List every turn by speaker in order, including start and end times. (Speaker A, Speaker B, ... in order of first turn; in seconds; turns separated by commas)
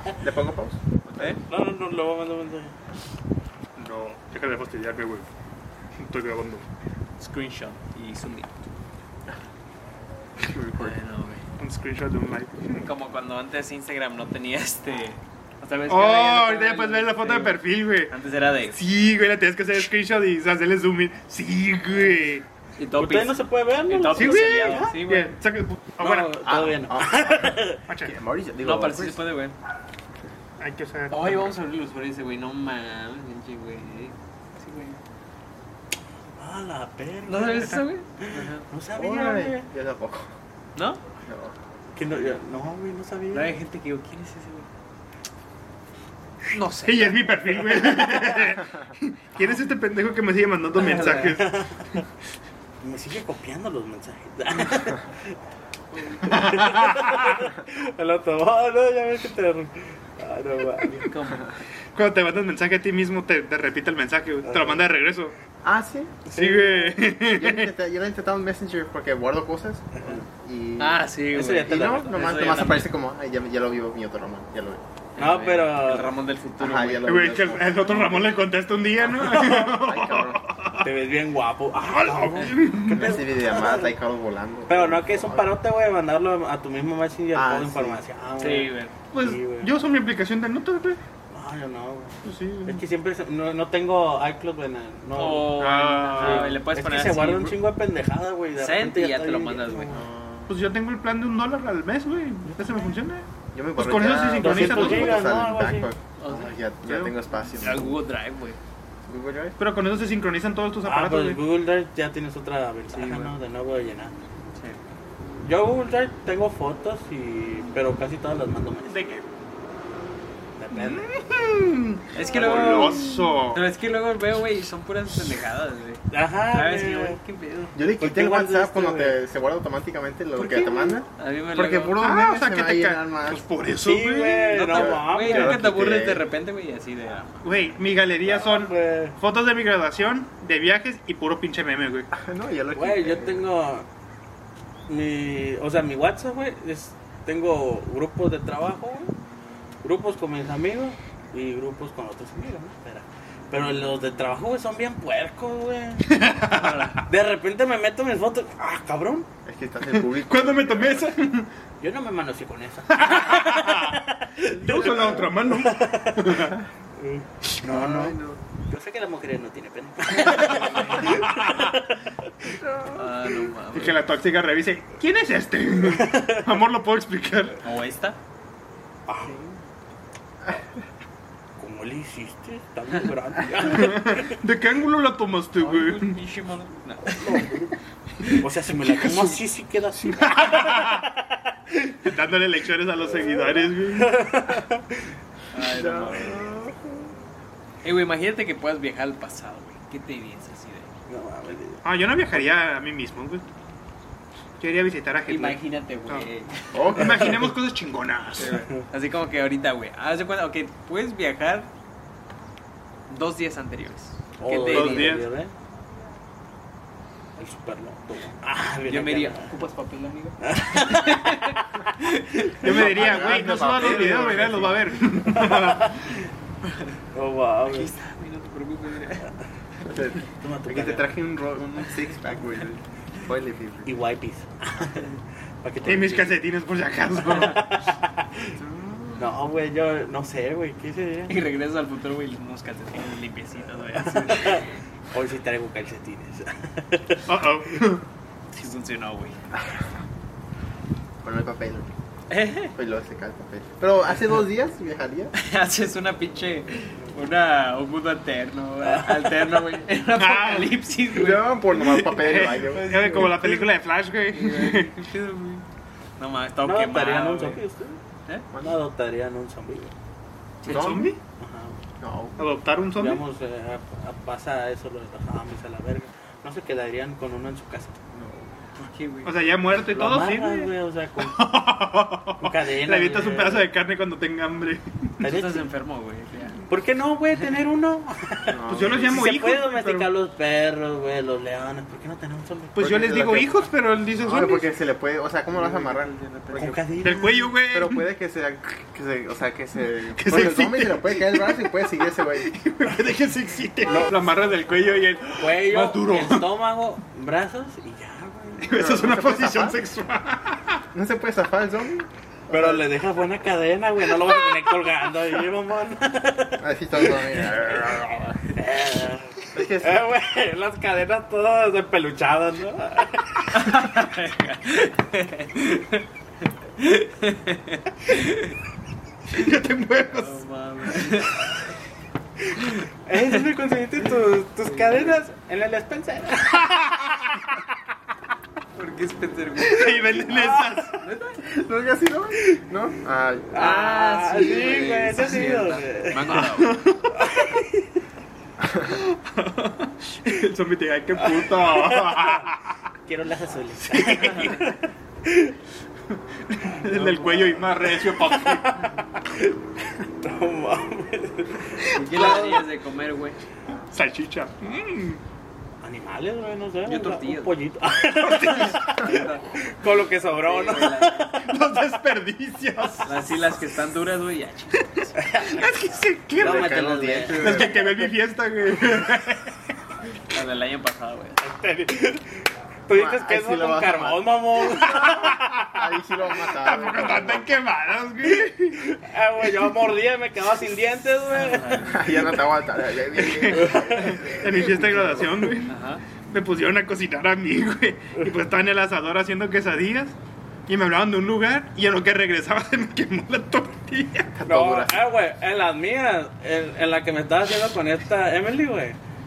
Speaker A: 0.2-1.4, Speaker B: 1.5-2.8, Speaker C: 3.8-5.3, Speaker C: 6.0-6.7, Speaker D: 7.2-8.6, Speaker A: 10.4-11.0, Speaker D: 10.8-11.4, Speaker C: 11.6-12.9, Speaker D: 12.8-18.8, Speaker C: 15.9-18.1, Speaker C: 18.7-22.4, Speaker D: 22.8-25.3, Speaker B: 22.9-25.0, Speaker C: 24.1-26.4, Speaker B: 26.0-27.8, Speaker A: 26.4-29.2, Speaker C: 27.9-28.1, Speaker D: 28.6-29.6, Speaker C: 30.6-31.6, Speaker D: 31.1-35.0, Speaker B: 36.4-39.7, Speaker D: 37.3-38.6, Speaker A: 39.0-40.3, Speaker D: 40.8-41.0, Speaker A: 41.2-41.5, Speaker B: 42.0-43.6, Speaker D: 42.1-42.4, Speaker D: 43.3-44.7, Speaker D: 46.5-47.4, Speaker C: 46.8-52.0, Speaker D: 50.8-51.4, Speaker B: 51.3-52.0, Speaker B: 52.8-55.2, Speaker D: 55.9-56.7, Speaker C: 56.2-57.5, Speaker B: 56.3-61.1, Speaker D: 61.0-61.5, Speaker C: 61.9-65.3, Speaker B: 64.5-64.8, Speaker A: 65.6-66.2, Speaker B: 66.3-67.0, Speaker C: 66.3-67.7, Speaker A: 67.3-71.0, Speaker D: 70.8-72.9, Speaker B: 71.3-72.8, Speaker A: 71.6-74.8, Speaker D: 75.2-77.1, Speaker B: 75.2-76.1, Speaker A: 76.6-78.3, Speaker C: 77.1-80.9, Speaker A: 79.1-80.4, Speaker B: 80.8-83.8, Speaker C: 81.9-83.2, Speaker A: 82.9-85.5, Speaker B: 84.7-89.7, Speaker A: 87.3-88.0, Speaker D: 88.4-88.9, Speaker C: 89.1-91.0, Speaker B: 91.3-100.0, Speaker C: 92.2-92.8, Speaker D: 95.2-97.6, Speaker C: 95.6-96.6, Speaker D: 98.6-100.1, Speaker A: 99.9-100.5, Speaker C: 100.5-105.3, Speaker B: 102.5-102.9, Speaker A: 103.5-108.0, Speaker B: 104.4-105.9, Speaker D: 106.2-106.5, Speaker C: 106.9-107.2, Speaker D: 107.6-108.6, Speaker A: 109.1-109.6, Speaker C: 109.6-111.4, Speaker B: 110.8-114.2, Speaker D: 112.9-113.3, Speaker B: 115.4-119.2, Speaker B: 120.6-121.1, Speaker C: 120.7-123.6, Speaker D: 122.1-127.8, Speaker B: 126.1-127.2, Speaker A: 127.8-133.4, Speaker B: 128.0-129.2, Speaker D: 130.4-132.0, Speaker C: 132.0-134.6, Speaker B: 133.8-135.7, Speaker D: 134.5-137.8, Speaker A: 134.7-136.2, Speaker C: 137.4-142.1, Speaker B: 138.2-139.2, Speaker A: 142.1-143.5, Speaker B: 142.8-143.9, Speaker B: 144.9-149.1, Speaker B: 149.8-156.1, Speaker C: 156.1-156.9, Speaker D: 156.5-157.0, Speaker B: 157.1-159.3, Speaker A: 159.5-161.1, Speaker C: 160.2-161.5, Speaker B: 161.8-168.2, Speaker C: 162.9-166.6, Speaker A: 164.5-165.3, Speaker A: 167.6-168.4, Speaker C: 167.7-168.1, Speaker B: 168.7-172.6, Speaker C: 170.3-171.7, Speaker A: 172.6-173.1, Speaker D: 172.9-174.1, Speaker C: 173.7-177.6, Speaker D: 177.6-178.2, Speaker B: 179.1-179.4, Speaker B: 181.6-184.3, Speaker C: 183.6-186.2, Speaker D: 185.6-187.5, Speaker B: 187.1-187.8, Speaker B: 188.4-192.0, Speaker C: 189.0-189.3, Speaker C: 190.0-191.1, Speaker C: 192.0-194.2, Speaker B: 194.0-194.9, Speaker D: 195.5-196.6, Speaker A: 195.6-197.1, Speaker D: 197.8-200.9, Speaker B: 201.1-201.8, Speaker C: 201.8-203.4, Speaker C: 204.6-206.3, Speaker D: 205.3-206.8, Speaker A: 206.7-207.4, Speaker C: 206.9-208.7, Speaker D: 208.4-211.7, Speaker D: 213.1-215.2, Speaker B: 214.4-215.5, Speaker C: 214.7-215.3, Speaker B: 217.4-219.5, Speaker D: 218.9-222.8, Speaker B: 220.4-221.7, Speaker B: 222.4-222.6, Speaker C: 222.6-226.2, Speaker A: 222.6-224.8, Speaker D: 223.8-224.1, Speaker B: 225.3-225.9, Speaker B: 227.1-227.9, Speaker D: 227.7-229.3, Speaker A: 229.8-233.9, Speaker B: 230.4-231.1, Speaker B: 233.9-236.4, Speaker C: 235.8-237.8, Speaker B: 237.2-238.6, Speaker B: 239.2-241.4, Speaker D: 241.3-244.7, Speaker B: 244.0-247.3, Speaker C: 247.3-248.0, Speaker D: 248.5-249.4, Speaker A: 249.5-249.8, Speaker A: 251.2-251.9, Speaker D: 252.3-252.7, Speaker A: 252.7-255.3, Speaker D: 255.4-263.7, Speaker B: 258.8-259.5, Speaker C: 260.1-260.8, Speaker A: 261.1-262.9, Speaker C: 262.2-264.9, Speaker D: 264.3-265.6, Speaker D: 266.2-267.6, Speaker B: 266.6-268.0, Speaker B: 268.6-269.9, Speaker D: 270.6-271.1, Speaker A: 270.6-271.1, Speaker C: 270.7-271.2, Speaker B: 271.4-271.8, Speaker A: 272.0-272.4, Speaker C: 272.4-273.2, Speaker B: 273.0-278.0, Speaker A: 278.1-278.5, Speaker D: 278.8-279.3, Speaker C: 279.2-285.2, Speaker B: 279.9-281.4, Speaker B: 282.4-283.7, Speaker B: 285.2-285.7, Speaker D: 285.2-286.6, Speaker B: 286.7-292.8, Speaker A: 288.5-289.3, Speaker C: 288.7-290.1, Speaker C: 292.8-294.7, Speaker A: 292.8-293.6, Speaker A: 294.2-296.8, Speaker D: 295.5-296.9, Speaker B: 296.6-297.5, Speaker C: 297.0-298.1, Speaker A: 297.7-302.5, Speaker C: 300.2-306.5, Speaker B: 303.9-304.2, Speaker B: 305.4-308.8, Speaker C: 308.6-310.8, Speaker A: 308.7-309.8, Speaker A: 310.9-312.8, Speaker B: 312.5-323.8, Speaker A: 316.6-318.2, Speaker A: 319.5-320.1, Speaker D: 323.5-326.1, Speaker D: 326.8-328.6, Speaker C: 329.3-330.4, Speaker D: 330.1-331.4, Speaker B: 333.1-336.7, Speaker D: 334.6-335.2, Speaker C: 336.5-337.6, Speaker D: 338.8-340.2, Speaker C: 339.6-341.0, Speaker B: 340.3-340.8, Speaker D: 341.0-341.4, Speaker A: 341.4-343.6, Speaker B: 343.5-346.4, Speaker D: 343.5-346.8, Speaker C: 346.3-347.1, Speaker B: 347.1-347.9, Speaker C: 348.8-352.7, Speaker B: 351.2-352.5, Speaker B: 353.1-355.6, Speaker C: 353.9-354.8, Speaker C: 356.1-358.9, Speaker B: 356.8-362.6, Speaker C: 361.8-362.6, Speaker D: 361.9-363.4, Speaker C: 363.9-365.2, Speaker B: 365.8-371.5, Speaker D: 366.9-367.6, Speaker C: 368.1-369.0, Speaker D: 368.9-369.4, Speaker D: 370.3-371.4, Speaker C: 371.4-373.1, Speaker D: 373.1-375.2, Speaker B: 375.2-375.7, Speaker C: 375.5-376.8, Speaker A: 376.4-378.0, Speaker B: 376.4-377.8, Speaker C: 377.3-379.6, Speaker D: 380.3-381.4, Speaker B: 381.4-385.6, Speaker A: 382.9-387.5, Speaker C: 384.8-388.9, Speaker B: 388.3-392.0, Speaker D: 391.3-392.1, Speaker A: 391.9-395.5, Speaker C: 393.2-395.8, Speaker B: 393.5-394.2, Speaker D: 395.7-396.0, Speaker C: 396.3-400.1, Speaker C: 400.7-404.3, Speaker A: 404.3-405.1, Speaker B: 404.5-409.0